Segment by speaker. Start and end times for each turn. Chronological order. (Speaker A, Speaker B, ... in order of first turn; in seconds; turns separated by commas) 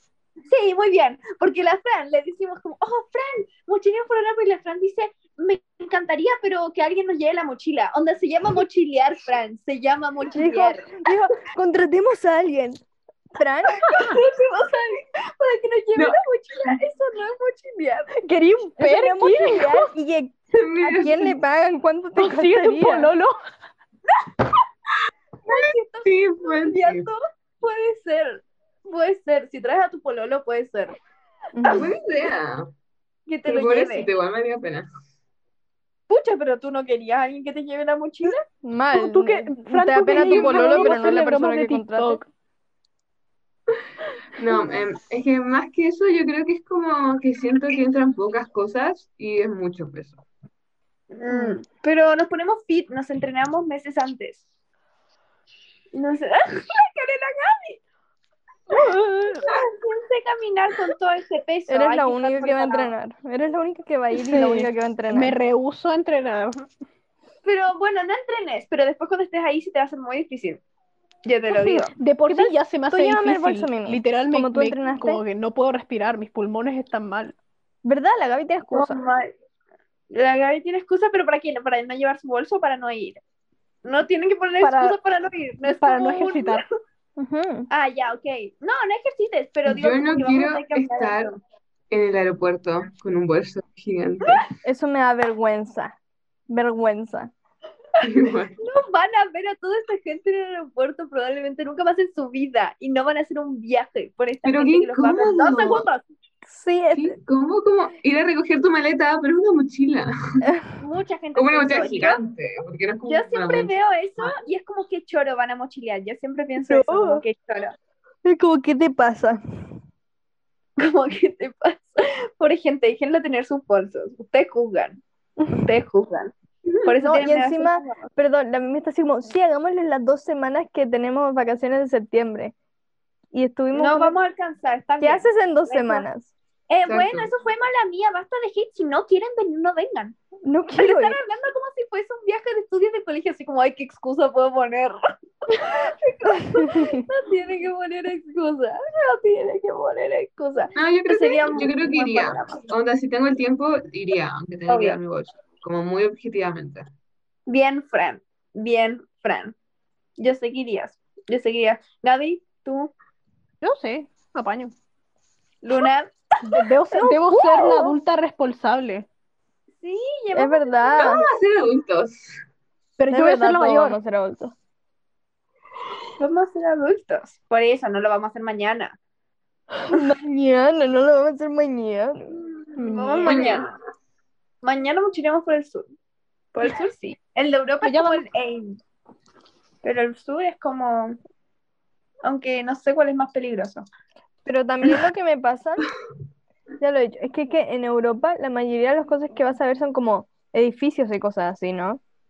Speaker A: 0.5-10.9, Speaker B: 10.3-12.8, Speaker B: 13.3-14.0, Speaker A: 13.8-18.1, Speaker C: 15.9-16.8, Speaker D: 18.2-19.9, Speaker B: 18.8-23.1, Speaker C: 20.5-21.4, Speaker D: 22.1-23.3, Speaker A: 25.4-30.9, Speaker C: 25.5-27.1, Speaker B: 31.5-31.9, Speaker A: 31.6-31.9, Speaker C: 31.7-32.7, Speaker A: 33.3-34.1, Speaker C: 33.5-34.9, Speaker A: 36.1-38.4, Speaker B: 38.6-42.2, Speaker D: 38.9-42.3, Speaker C: 40.2-41.0, Speaker C: 44.4-50.2, Speaker A: 51.1-54.4, Speaker A: 55.9-57.8, Speaker D: 58.8-59.4, Speaker A: 59.4-62.9, Speaker B: 61.7-65.3, Speaker D: 64.1-66.7, Speaker A: 67.4-70.6, Speaker A: 71.2-71.9, Speaker B: 71.5-75.2, Speaker D: 72.0-77.3, Speaker B: 77.8-79.0, Speaker A: 78.7-79.3, Speaker A: 80.1-83.2, Speaker A: 83.8-86.7, Speaker D: 84.6-85.0, Speaker D: 85.7-86.6, Speaker B: 87.2-87.7, Speaker A: 87.7-91.4, Speaker C: 89.7-91.3, Speaker C: 91.9-94.4, Speaker B: 94.6-96.0, Speaker B: 96.5-97.3, Speaker C: 98.0-98.6, Speaker A: 98.6-106.0, Speaker C: 104.4-105.8, Speaker B: 106.5-107.2, Speaker C: 106.9-110.5, Speaker A: 110.8-112.2, Speaker C: 111.3-114.3, Speaker A: 113.1-117.7, Speaker B: 116.7-117.2, Speaker B: 118.2-119.4, Speaker A: 120.8-125.0, Speaker A: 125.5-126.3, Speaker A: 126.8-128.0, Speaker B: 127.0-132.5, Speaker B: 133.3-134.2, Speaker A: 133.7-136.1, Speaker B: 135.0-136.3, Speaker A: 136.7-140.2, Speaker C: 136.8-137.3, Speaker B: 140.4-141.2, Speaker A: 140.8-145.0, Speaker A: 145.5-152.6, Speaker B: 146.4-147.0, Speaker C: 150.7-156.9, Speaker A: 154.7-155.0, Speaker A: 157.5-159.5, Speaker A: 160.2-162.9, Speaker D: 163.6-164.7, Speaker A: 165.6-167.9, Speaker D: 166.4-169.1, Speaker A: 169.8-171.2, Speaker B: 170.3-171.2, Speaker C: 171.0-172.3, Speaker D: 173.0-174.0, Speaker B: 173.1-174.5, Speaker A: 176.2-178.9, Speaker B: 179.9-182.3, Speaker A: 182.7-183.7, Speaker D: 182.8-183.5, Speaker C: 183.2-183.7, Speaker A: 184.6-185.9, Speaker A: 186.5-188.8, Speaker D: 187.8-188.2, Speaker A: 189.8-191.2, Speaker A: 192.2-193.8, Speaker B: 194.4-195.8, Speaker B: 196.8-202.0